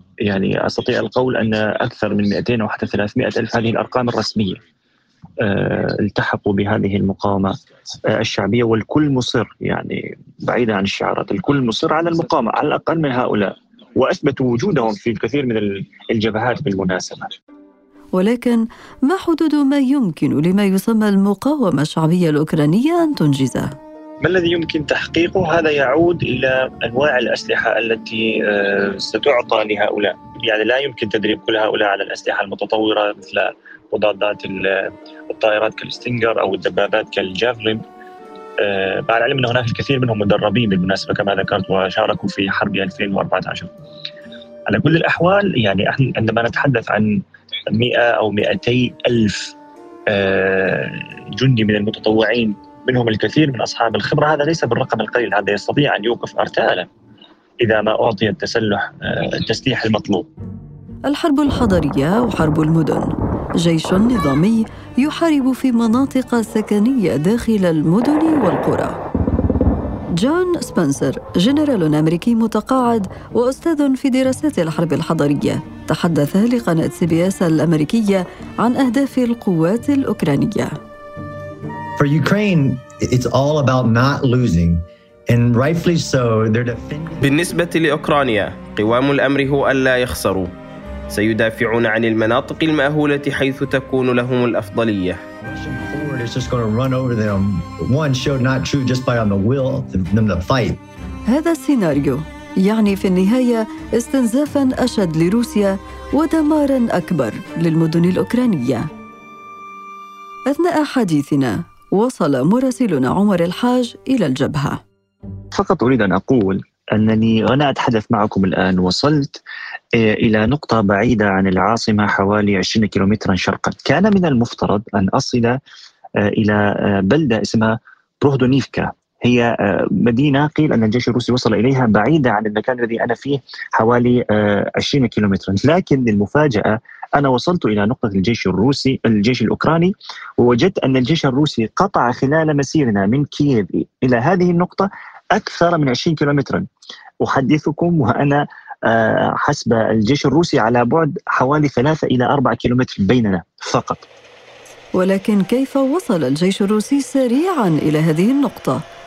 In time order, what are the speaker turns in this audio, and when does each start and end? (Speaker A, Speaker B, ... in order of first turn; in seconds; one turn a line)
Speaker A: 0.2-4.6
Speaker A: 5.4-7.5
Speaker A: 8.1-17.3
Speaker B: 18.1-23.7
Speaker A: 24.2-37.8
Speaker A: 38.6-43.7
Speaker A: 44.7-47.1
Speaker A: 47.7-49.5
Speaker A: 50.1-56.9
Speaker A: 57.6-60.3
Speaker B: 61.0-63.1
Speaker B: 63.6-69.0
Speaker B: 70.2-80.7
Speaker C: 82.0-87.4
Speaker D: 87.2-90.5
Speaker D: 91.1-95.2
Speaker C: 95.4-100.8
Speaker B: 101.3-108.9
Speaker B: 110.5-114.8
Speaker A: 115.5-119.4
Speaker A: 120.0-125.6
Speaker A: 126.2-146.6
Speaker A: 147.2-154.1
Speaker B: 154.9-158.8